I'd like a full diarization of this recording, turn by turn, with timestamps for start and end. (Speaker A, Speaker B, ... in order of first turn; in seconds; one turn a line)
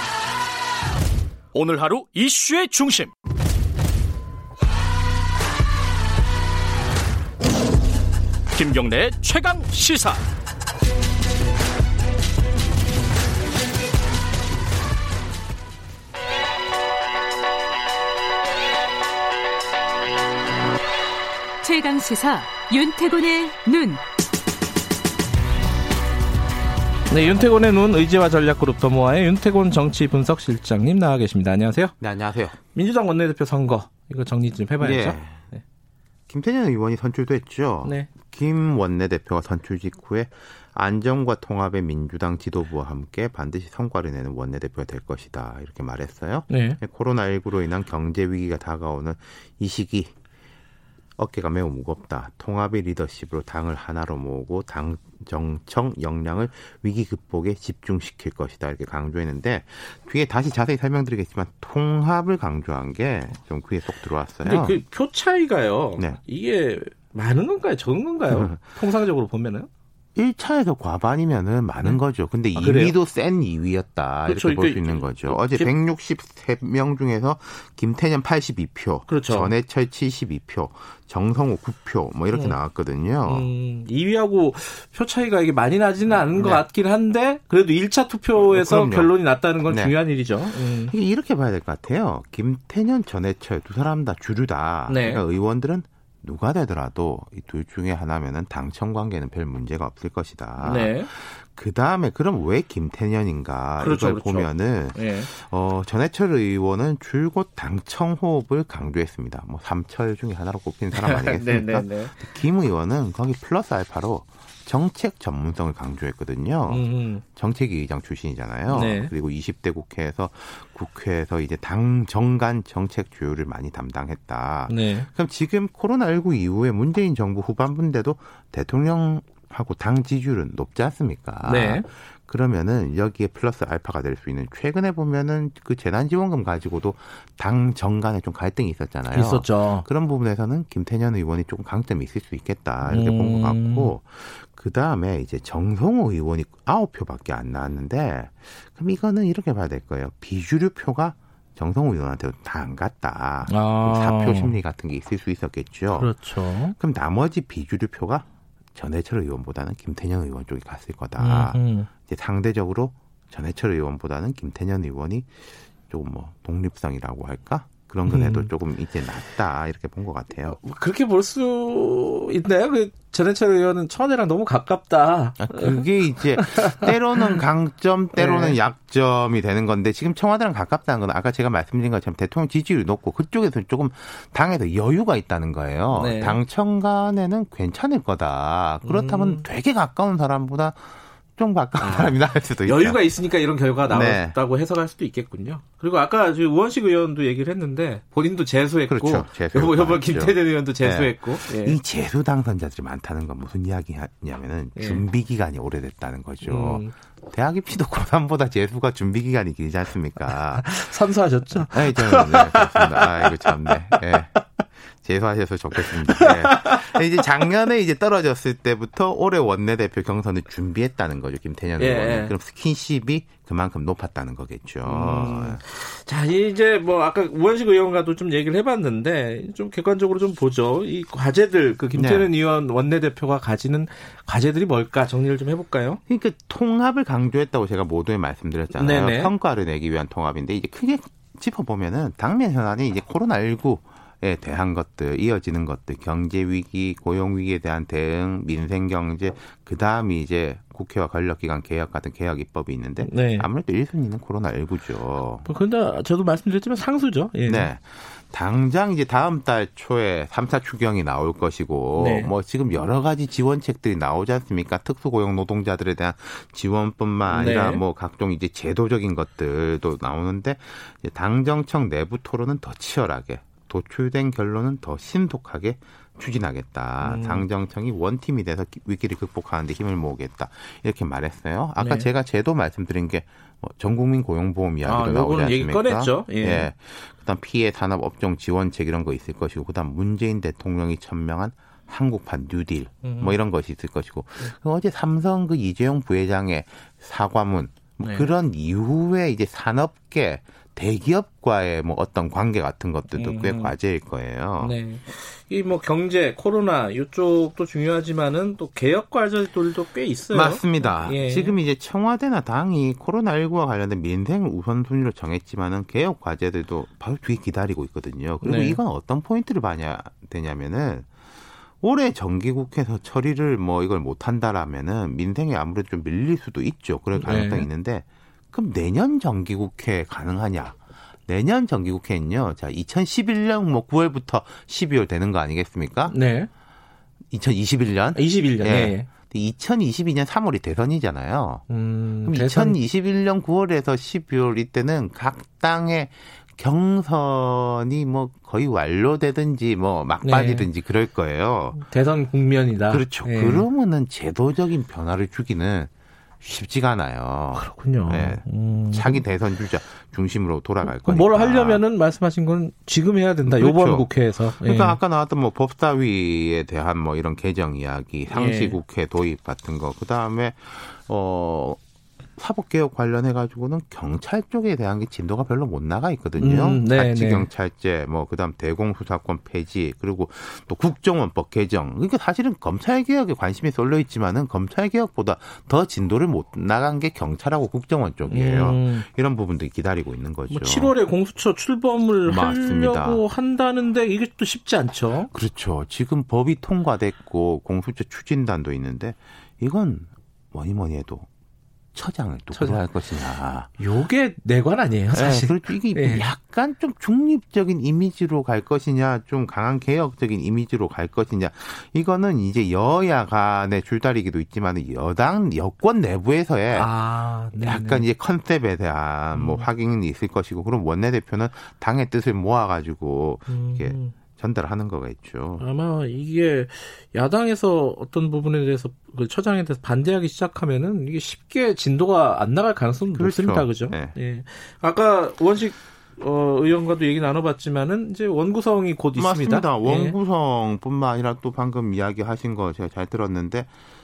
Speaker A: 1.5-3.1
Speaker A: 8.5-10.2
Speaker B: 21.6-24.0
Speaker A: 22.5-22.8
Speaker C: 27.1-31.9
Speaker D: 32.0-32.6
Speaker C: 32.7-35.6
Speaker D: 34.8-35.5
Speaker D: 36.3-50.1
Speaker C: 37.8-38.1
Speaker C: 46.5-46.8
Speaker D: 51.2-64.8
Speaker C: 64.4-69.7
Speaker D: 68.3-68.6
Speaker D: 70.2-83.5
Speaker C: 72.5-73.0
Speaker C: 74.3-75.7
Speaker C: 79.1-79.5
Speaker C: 82.3-82.6
Speaker C: 83.2-90.9
Speaker D: 86.1-86.7
Speaker D: 88.3-89.1
Speaker D: 89.7-90.0
Speaker D: 90.6-165.4
Speaker C: 94.9-95.2
Speaker C: 100.6-101.1
Speaker C: 103.8-105.3
Speaker C: 110.9-112.2
Speaker C: 116.7-117.2
Speaker C: 118.7-119.1
Speaker C: 124.7-125.1
Speaker C: 131.4-131.9
Speaker C: 139.1-139.9
Speaker C: 142.8-143.9
Speaker C: 153.5-154.6
Speaker C: 155.9-156.8
Speaker C: 161.2-161.9
Speaker D: 165.9-170.6
Speaker C: 168.1-168.5
Speaker C: 170.5-177.4
Speaker D: 175.4-193.0
Speaker C: 178.1-178.6
Speaker C: 185.9-186.4
Speaker C: 188.8-189.4
Speaker C: 191.8-201.8
Speaker D: 193.9-194.4
Speaker D: 198.9-211.0
Speaker C: 204.8-205.0
Speaker C: 206.4-206.9
Speaker C: 210.2-214.4
Speaker D: 211.6-214.3
Speaker D: 214.9-225.6
Speaker C: 215.7-217.0
Speaker C: 221.8-222.3
Speaker C: 224.8-236.0
Speaker D: 231.9-232.3
Speaker D: 236.1-255.5
Speaker C: 238.7-239.3
Speaker C: 253.0-253.5
Speaker C: 255.4-257.7
Speaker D: 257.5-304.8
Speaker C: 261.9-262.3
Speaker C: 267.3-267.8
Speaker C: 277.0-277.5
Speaker C: 281.8-282.1
Speaker C: 284.8-286.7
Speaker C: 293.0-293.4
Speaker C: 298.0-298.3
Speaker C: 303.1-303.8
Speaker C: 304.6-311.6
Speaker D: 310.3-321.1
Speaker C: 318.4-318.8
Speaker D: 321.8-336.2
Speaker C: 327.1-327.7
Speaker C: 336.1-336.5
Speaker D: 337.3-341.6
Speaker C: 338.1-339.1
Speaker C: 341.7-342.8
Speaker D: 342.2-351.8
Speaker C: 350.2-350.7
Speaker C: 351.8-353.7
Speaker D: 352.9-355.9
Speaker D: 356.4-361.8
Speaker C: 357.5-359.2
Speaker C: 360.8-365.0
Speaker D: 363.4-371.8
Speaker C: 368.3-368.8
Speaker D: 372.4-390.9
Speaker C: 376.4-377.5
Speaker C: 388.3-389.1
Speaker C: 390.5-395.3
Speaker D: 392.3-393.2
Speaker D: 395.3-401.3
Speaker D: 401.9-403.7
Speaker C: 402.5-403.0
Speaker C: 403.8-406.3
Speaker D: 405.1-416.9
Speaker C: 416.7-418.1
Speaker D: 417.6-425.7
Speaker C: 419.3-419.7
Speaker C: 423.5-424.1
Speaker C: 425.6-440.2
Speaker D: 433.1-434.1
Speaker D: 439.1-443.7